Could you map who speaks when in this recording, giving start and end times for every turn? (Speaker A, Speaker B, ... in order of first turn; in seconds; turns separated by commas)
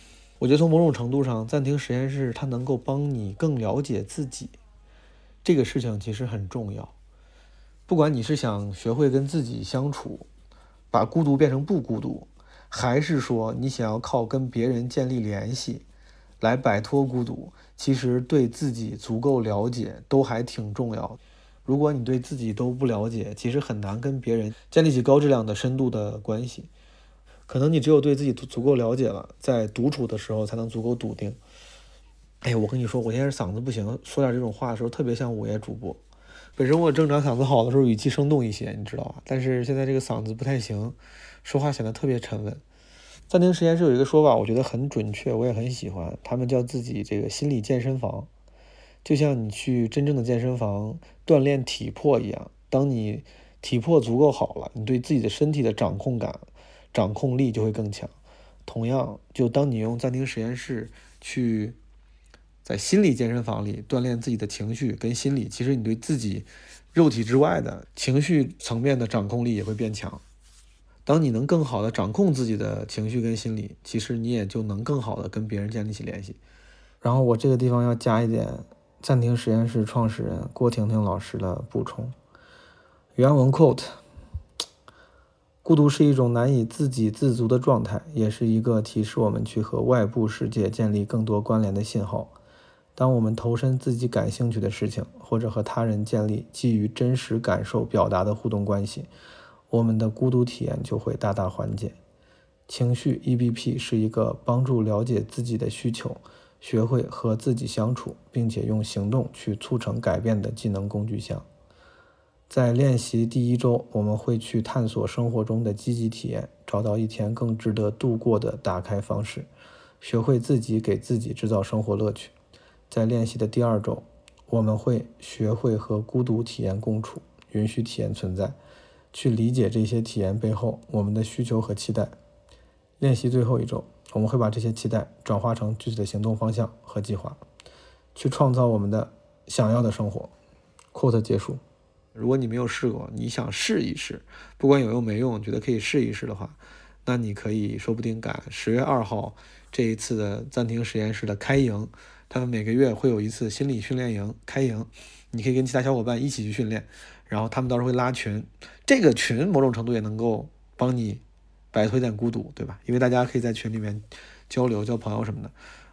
Speaker A: 0.4-4.5, Speaker A: 5.4-6.9, Speaker A: 7.9-10.3, Speaker A: 10.9-15.8, Speaker A: 16.4-26.7, Speaker A: 27.5-31.4, Speaker A: 32.4-36.0, Speaker A: 36.5-42.6, Speaker A: 43.3-48.3, Speaker A: 49.0-58.1, Speaker A: 58.6-61.8, Speaker A: 62.6-70.2, Speaker A: 71.0-76.4, Speaker A: 77.0-82.1, Speaker A: 83.2-84.0, Speaker A: 85.6-92.3, Speaker A: 93.0-99.1, Speaker A: 99.7-102.0, Speaker A: 102.7-111.5, Speaker A: 112.5-119.5, Speaker A: 120.0-122.3, Speaker A: 122.9-128.6, Speaker A: 129.1-132.2, Speaker A: 133.0-137.4, Speaker A: 138.1-140.3, Speaker A: 140.9-141.6, Speaker A: 142.1-161.2, Speaker A: 161.7-165.5